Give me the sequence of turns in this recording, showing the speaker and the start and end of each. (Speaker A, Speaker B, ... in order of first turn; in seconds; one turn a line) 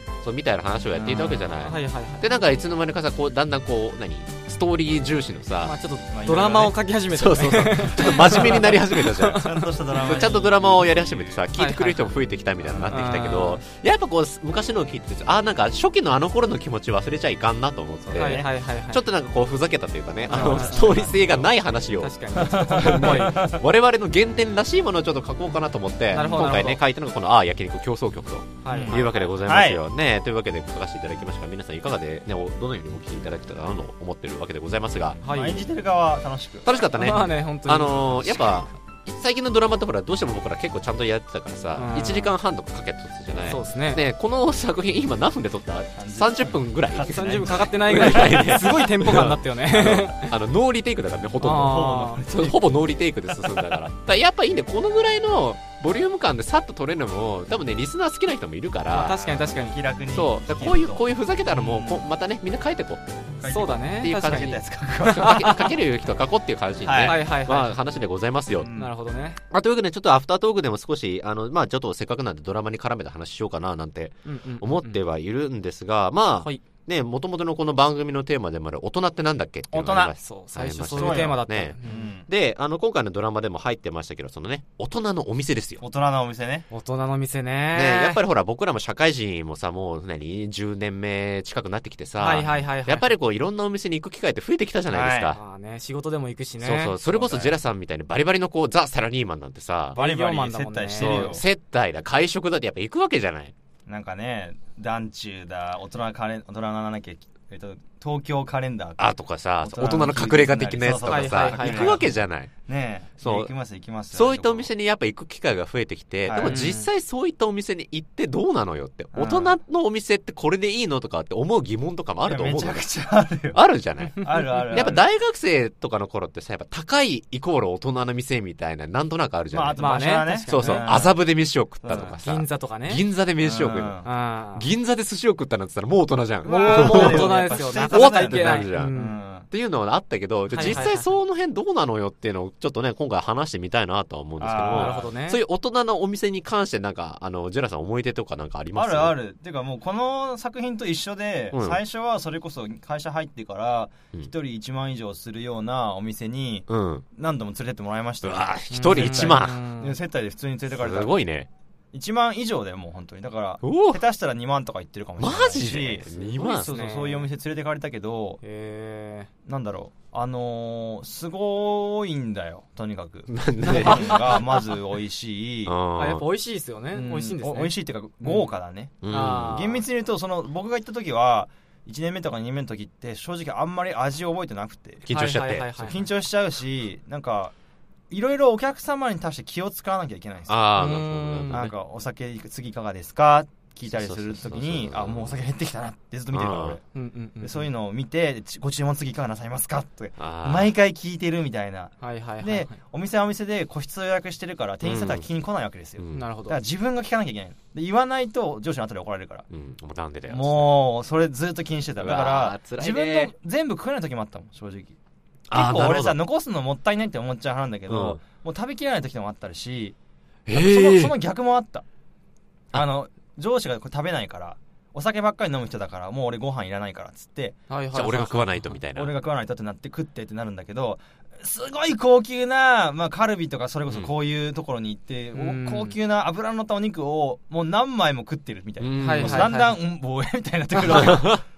Speaker A: 0.2-5.7
Speaker B: 0.9-1.5
Speaker C: 1.5-2.3
Speaker C: 5.6-9.6
Speaker B: 6.1-6.8
Speaker A: 7.1-35.2
Speaker B: 8.2-8.7
Speaker B: 9.3-11.4
Speaker C: 11.5-12.1
Speaker B: 12.7-12.9
Speaker C: 12.9-13.6
Speaker B: 18.1-18.5
Speaker C: 18.1-19.0
Speaker C: 20.3-21.2
Speaker B: 20.3-21.2
Speaker C: 22.0-23.4
Speaker B: 22.4-23.6
Speaker C: 26.1-26.8
Speaker C: 28.6-29.4
Speaker B: 28.7-29.8
Speaker B: 35.2-36.7
Speaker C: 35.2-35.7
Speaker A: 36.6-59.2
Speaker C: 37.0-38.5
Speaker C: 41.8-42.3
Speaker C: 43.5-44.0
Speaker B: 46.0-48.6
Speaker C: 47.1-50.3
Speaker C: 51.4-52.3
Speaker B: 51.7-52.6
Speaker C: 58.9-59.8
Speaker B: 59.0-62.0
Speaker A: 60.1-63.2
Speaker B: 63.4-65.7
Speaker C: 63.4-64.6
Speaker A: 63.8-68.7
Speaker C: 65.1-65.7
Speaker B: 66.8-67.2
Speaker C: 67.0-67.8
Speaker B: 68.6-68.9
Speaker C: 68.7-69.4
Speaker A: 69.5-85.8
Speaker C: 74.2-75.0
Speaker B: 79.7-80.1
Speaker C: 80.2-82.1
Speaker B: 80.9-82.2
Speaker B: 85.8-86.7
Speaker C: 86.7-88.2
Speaker A: 87.7-95.4
Speaker C: 92.2-93.1
Speaker B: 94.9-95.4
Speaker C: 95.3-97.0
Speaker A: 96.6-100.0
Speaker B: 97.1-97.5
Speaker C: 99.9-101.4
Speaker B: 100.0-101.4
Speaker A: 101.0-103.5
Speaker B: 103.9-114.7
Speaker A: 109.0-112.5
Speaker C: 111.0-112.0
Speaker A: 113.2-113.5
Speaker A: 114.1-122.8
Speaker B: 116.3-116.7
Speaker C: 116.4-116.9
Speaker B: 119.1-119.5
Speaker B: 122.2-123.6
Speaker A: 123.5-129.8
Speaker C: 124.2-124.9
Speaker B: 124.2-125.0
Speaker B: 129.5-131.2
Speaker C: 129.8-130.9
Speaker A: 130.4-134.0
Speaker B: 131.8-132.2
Speaker C: 132.2-133.0
Speaker B: 133.4-134.1
Speaker C: 134.0-134.7
Speaker A: 134.5-138.9
Speaker C: 136.4-139.2
Speaker B: 136.4-139.5
Speaker A: 139.5-149.2
Speaker C: 140.5-141.1
Speaker B: 144.4-145.1
Speaker C: 144.7-145.4
Speaker B: 148.7-161.2
Speaker A: 151.5-151.8
Speaker A: 156.7-157.0
Speaker A: 158.2-159.6
Speaker C: 158.7-159.9
Speaker A: 160.7-161.5
Speaker B: 161.9-168.4
Speaker A: 163.6-164.0
Speaker A: 165.2-166.7
Speaker C: 166.4-167.3
Speaker C: 168.4-169.3
Speaker B: 169.4-175.8
Speaker A: 173.3-174.4
Speaker C: 173.7-174.6
Speaker A: 175.7-176.2
Speaker C: 175.9-177.7
Speaker B: 176.9-185.0
Speaker A: 179.0-179.6
Speaker C: 179.1-179.8
Speaker A: 185.0-185.7
Speaker C: 185.1-186.0
Speaker B: 185.8-187.5
Speaker B: 188.1-190.6
Speaker A: 190.5-191.7
Speaker C: 190.8-191.6
Speaker B: 191.5-196.8
Speaker A: 193.9-195.3
Speaker A: 196.3-196.8
Speaker C: 196.9-197.7
Speaker B: 197.4-209.5
Speaker A: 200.2-200.7
Speaker C: 202.0-202.8
Speaker A: 204.8-205.3
Speaker A: 206.0-206.3
Speaker C: 206.1-206.6
Speaker A: 209.5-210.7
Speaker B: 210.3-214.9
Speaker A: 212.0-213.3
Speaker A: 215.5-216.2
Speaker B: 215.5-219.9
Speaker A: 217.9-218.2
Speaker A: 220.5-221.1
Speaker B: 220.5-221.8
Speaker B: 222.7-227.6
Speaker C: 227.7-228.8
Speaker A: 227.9-229.1
Speaker B: 228.9-241.4
Speaker A: 233.9-234.1
Speaker C: 235.3-235.9
Speaker A: 238.8-239.5
Speaker C: 239.0-239.8
Speaker A: 240.8-241.4